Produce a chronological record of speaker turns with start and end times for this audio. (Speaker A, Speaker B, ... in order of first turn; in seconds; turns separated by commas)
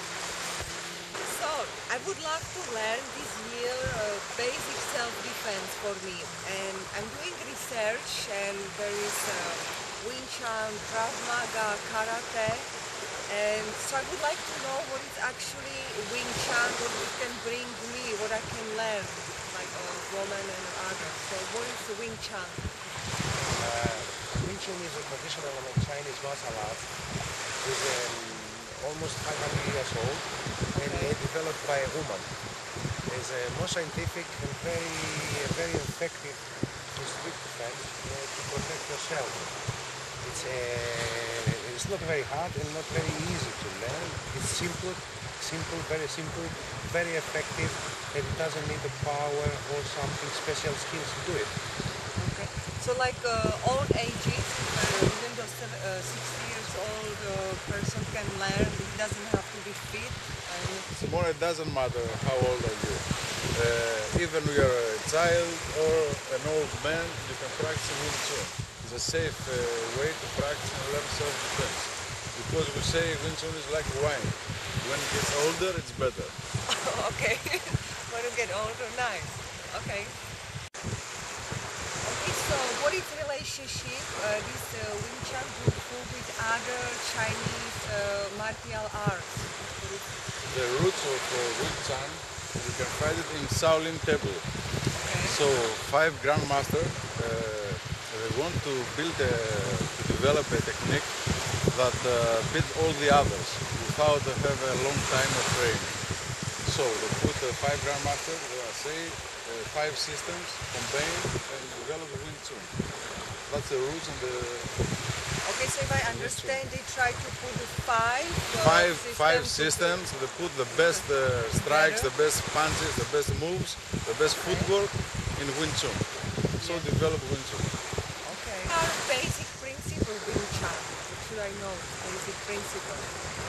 Speaker A: 1.2-12.7, Speaker A: 13.3-22.7, Speaker B: 23.6-26.9, Speaker B: 27.6-32.3, Speaker A: 30.7-31.2, Speaker B: 33.1-36.4, Speaker B: 36.9-39.5, Speaker B: 40.2-51.5, Speaker A: 52.2-60.9, Speaker C: 60.9-76.4, Speaker A: 76.7-80.2, Speaker A: 82.0-90.1, Speaker C: 90.5-94.5, Speaker A: 95.0-95.4, Speaker C: 95.2-101.1, Speaker C: 101.7-106.0, Speaker C: 106.6-112.8, Speaker C: 113.5-114.7, Speaker A: 115.4-120.1, Speaker C: 116.1-116.6, Speaker C: 118.6-126.1, Speaker A: 120.7-122.1, Speaker A: 124.3-124.7, Speaker A: 126.6-126.9, Speaker C: 126.6-127.7, Speaker A: 128.2-133.2